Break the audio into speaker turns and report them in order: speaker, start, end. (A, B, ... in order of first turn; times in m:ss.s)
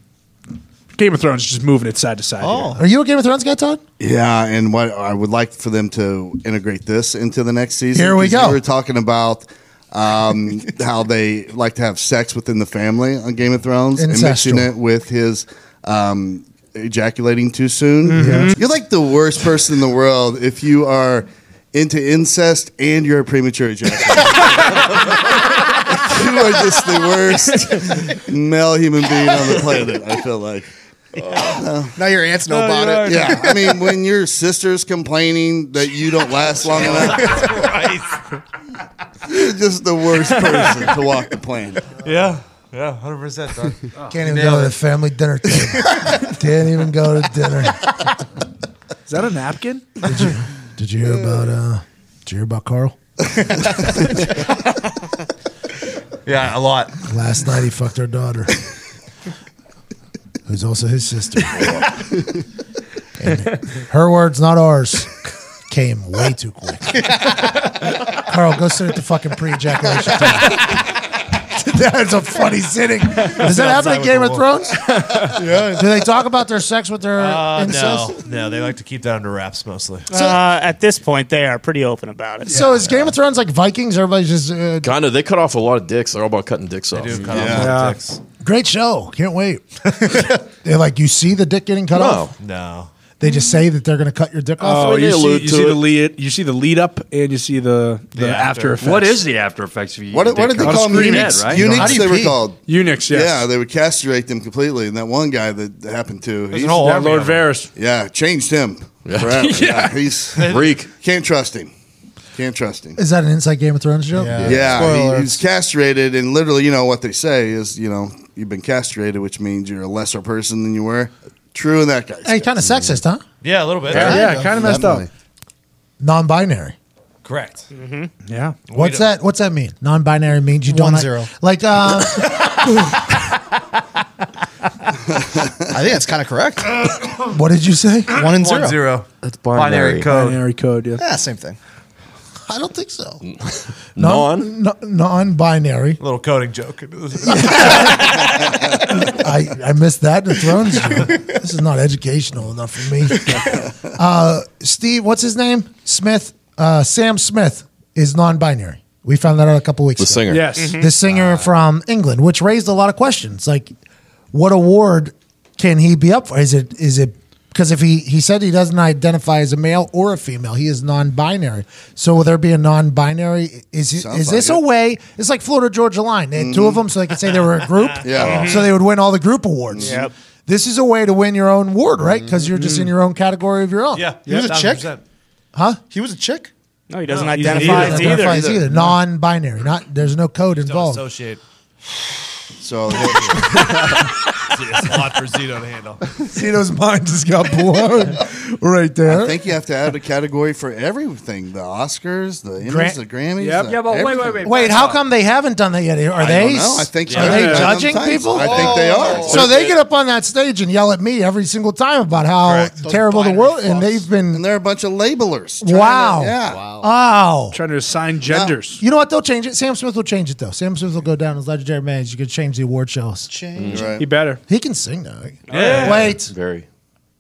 0:00.9-0:02.8 A
0:02.4-0:02.8 B
0:02.8-0:03.8 C
0:04.0-0:30.7 D
0:07.9-0:08.6 C
0:14.0-0:14.7 C
0:18.1-0:18.6 A
0:18.2-0:18.6 C
0:31.2-0:31.6 E
0:31.4-0:31.9 D
0:32.0-0:33.8 B
0:32.5-0:33.5 E
0:33.0-0:37.6 D
0:36.7-0:38.2 E
0:39.2-0:41.8 D
0:42.0-0:44.7 E
0:44.0-0:44.3 F
0:44.1-0:48.0 C
0:49.0-0:50.0 A
0:50.0-0:53.0 C
0:56.2-0:57.0 E
0:57.0-0:58.6 C
1:00.5-1:01.8 C
1:03.2-1:05.1 C
1:05.7-1:07.3 C
1:08.1-1:10.8 C
1:11.6-1:18.2 C
1:13.4-1:14.4 E
1:15.3-1:16.0 B
1:17.2-1:20.1 E
1:20.1-1:20.4 C
1:20.1-1:22.7 G
1:22.5-1:24.9 C
1:24.8-1:27.2 H
1:26.9-1:28.2 E
1:27.2-1:27.7 D
1:27.5-1:28.0 A
1:28.4-1:32.3 C
1:31.9-1:32.3 H
1:32.4-1:32.9 E
1:33.2-1:35.0 C
1:34.6-1:39.2 A
1:34.8-1:35.9 H
1:38.1-1:38.9 E
1:38.8-1:41.8 F
1:40.1-1:47.0 D
1:40.6-1:43.5 A
1:41.6-1:42.4 C
1:41.6-1:42.0 B
1:46.5-1:47.5 E
1:46.8-1:47.7 A
1:47.7-1:51.7 D
1:49.0-1:49.7 H
1:49.4-1:50.4 A
1:50.4-1:50.7 E
1:50.4-1:50.9 H
1:52.3-1:53.0 D
1:53.0-1:55.1 C
1:54.1-1:55.4 B
1:54.4-2:02.6 D
2:02.2-2:03.2 C
2:03.4-2:04.4 E
2:03.9-2:05.1 A
2:03.9-2:05.0 B
2:03.9-2:05.0 D
2:06.0-2:06.8 C
2:07.2-2:07.7 E
2:07.7-2:08.1 G
2:08.2-2:08.6 A
2:08.7-2:09.1 E
2:08.7-2:12.8 C
2:10.6-2:11.3 B
2:15.2-2:15.6 D
2:15.7-2:16.7 B
2:17.3-2:18.1 C
2:18.1-2:18.8 B
2:18.2-2:20.4 E
2:19.2-2:20.1 H
2:20.0-2:21.0 A
2:21.0-2:21.6 B
2:22.5-2:23.2 C
2:23.2-2:24.5 H
2:24.0-2:26.0 C
2:26.0-2:28.2 E
2:27.2-2:43.7 C
2:33.3-2:33.6 B
2:40.0-2:40.6 H
2:40.3-2:41.1 A
2:40.6-2:40.9 G
2:44.3-3:04.0 C
2:53.9-2:54.6 D
2:56.3-2:56.9 D
2:57.8-2:58.2 E
2:58.0-2:58.7 D
2:58.2-2:58.7 G
2:59.7-3:00.0 D
2:59.8-3:00.1 G
3:02.5-3:02.9 A
3:03.9-3:05.0 E
3:04.2-3:04.9 B
3:05.5-3:05.8 C
3:05.9-3:06.5 B
3:06.9-3:08.5 G
3:07.1-3:08.1 E
3:07.4-3:11.0 C
3:07.4-3:08.3 A
3:08.2-3:08.6 D
3:10.6-3:11.4 E
3:12.6-3:14.1 D
3:13.0-3:13.5 E
3:14.5-3:16.0 E
3:16.3-3:19.4 C
3:19.0-3:24.4 D
3:22.6-3:23.0 C
3:23.4-3:23.8 A
3:23.6-3:25.0 F
3:24.4-3:34.4 C
3:26.2-3:29.5 D
3:27.0-3:27.6 E
3:27.1-3:27.8 A
3:28.3-3:29.5 B
3:29.0-3:29.4 E
3:29.3-3:29.7 H
3:32.4-3:32.7 E
3:32.8-3:34.0 B
3:34.3-3:36.6 D
3:35.6-3:37.6 C
3:36.5-3:36.8 E
3:37.5-3:38.8 A
3:38.2-3:38.6 D
3:38.8-3:43.3 C
3:43.2-3:44.0 B
3:43.5-3:43.9 H
3:43.7-3:44.1 D
3:43.9-3:44.4 A
3:44.5-3:46.3 C
3:45.5-3:46.0 G
3:45.5-3:46.1 E
3:45.8-3:46.6 H